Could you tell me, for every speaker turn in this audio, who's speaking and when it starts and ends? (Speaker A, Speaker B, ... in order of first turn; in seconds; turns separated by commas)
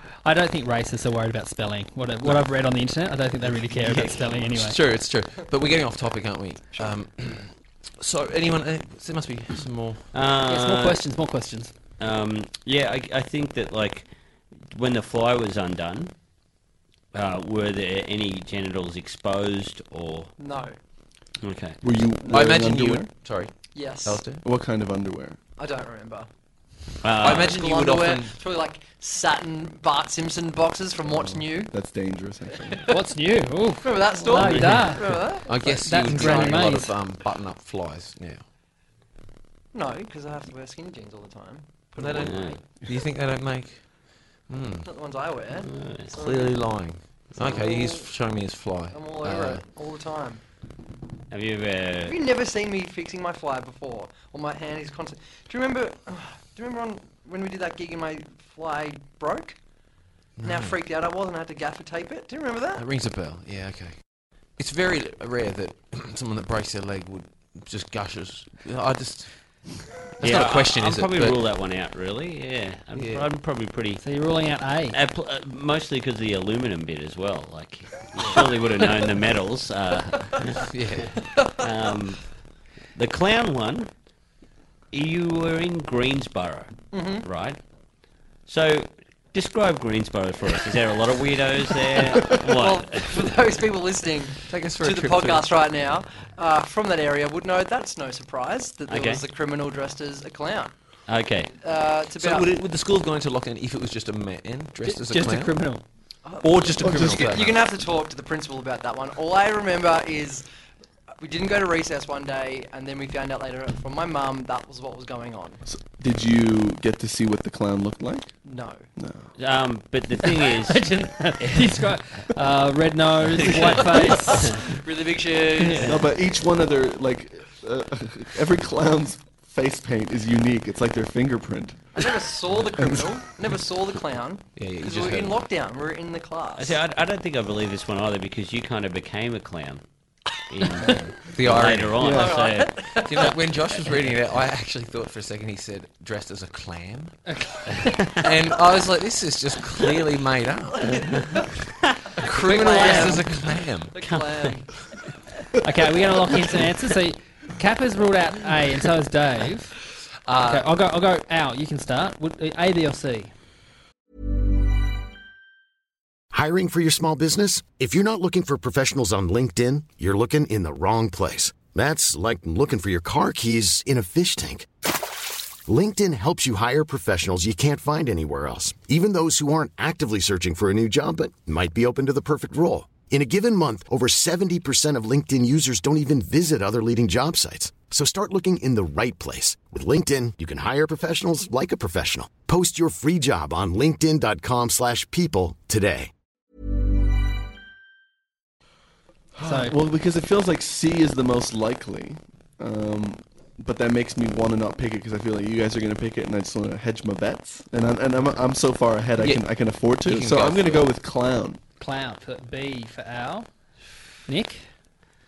Speaker A: 0.2-4.8, Speaker B: 3.7-10.1, Speaker C: 10.1-11.0, Speaker A: 10.5-11.7, Speaker C: 12.0-14.1, Speaker C: 14.7-16.1, Speaker C: 17.1-20.3, Speaker D: 20.4-20.7, Speaker C: 21.4-21.8, Speaker E: 21.8-23.1, Speaker B: 22.3-24.4, Speaker D: 23.7-24.2, Speaker E: 24.4-25.4, Speaker D: 25.6-26.3, Speaker C: 27.0-27.6, Speaker B: 27.2-28.3, Speaker D: 27.2-31.8, Speaker E: 31.1-32.9, Speaker A: 32.9-35.0, Speaker D: 33.8-36.7, Speaker C: 34.4-34.8, Speaker B: 34.4-34.9, Speaker B: 35.4-38.4, Speaker A: 35.8-36.9, Speaker D: 39.7-42.6, Speaker B: 42.0-43.9, Speaker C: 42.2-42.6, Speaker B: 44.5-44.9, Speaker D: 44.9-46.8, Speaker C: 45.7-46.1, Speaker B: 46.1-49.6, Speaker D: 47.4-48.1, Speaker D: 48.9-50.4, Speaker C: 51.3-52.2, Speaker D: 52.1-59.6, Speaker B: 60.4-60.8, Speaker D: 60.4-62.9, Speaker B: 62.8-64.0, Speaker B: 64.6-69.3, Speaker B: 70.2-71.4, Speaker C: 70.2-74.0, Speaker B: 72.9-73.3, Speaker A: 74.0-75.0, Speaker C: 74.9-81.1, Speaker B: 80.6-81.2, Speaker C: 81.6-82.2, Speaker C: 82.9-83.9, Speaker C: 84.9-87.6, Speaker D: 86.9-87.2, Speaker C: 88.5-93.3, Speaker D: 92.3-100.7, Speaker B: 94.5-95.5, Speaker C: 98.9-99.2, Speaker C: 101.1-101.5, Speaker D: 101.6-102.6, Speaker B: 102.2-105.5, Speaker A: 104.8-105.8, Speaker D: 106.2-110.4, Speaker B: 106.4-107.6, Speaker E: 106.8-107.4, Speaker D: 111.2-115.6, Speaker E: 115.7-118.3, Speaker D: 118.4-118.8, Speaker E: 119.0-119.3, Speaker C: 119.4-121.8, Speaker A: 120.2-124.6, Speaker C: 123.5-124.5, Speaker D: 123.5-126.0, Speaker A: 125.6-125.9, Speaker E: 125.8-132.0, Speaker D: 131.9-136.8, Speaker E: 132.8-133.1, Speaker B: 134.6-135.4, Speaker C: 136.6-139.8, Speaker C: 140.5-143.0, Speaker B: 141.3-142.1, Speaker D: 142.0-143.4, Speaker E: 142.0-142.4, Speaker B: 143.0-147.2, Speaker A: 147.3-148.1, Speaker B: 148.2-151.1, Speaker D: 150.8-151.4, Speaker C: 151.8-152.1, Speaker B: 152.2-153.9, Speaker D: 152.2-154.7, Speaker A: 152.6-153.2, Speaker C: 154.0-154.6, Speaker A: 155.6-159.8, Speaker B: 160.2-160.7, Speaker A: 160.4-163.3, Speaker F: 166.3-174.7, Speaker F: 175.7-196.1, Speaker E: 199.3-211.6, Speaker A: 199.4-199.7, Speaker B: 209.2-209.4, Speaker B: 210.0-210.9, Speaker A: 211.8-213.5, Speaker A: 214.3-214.6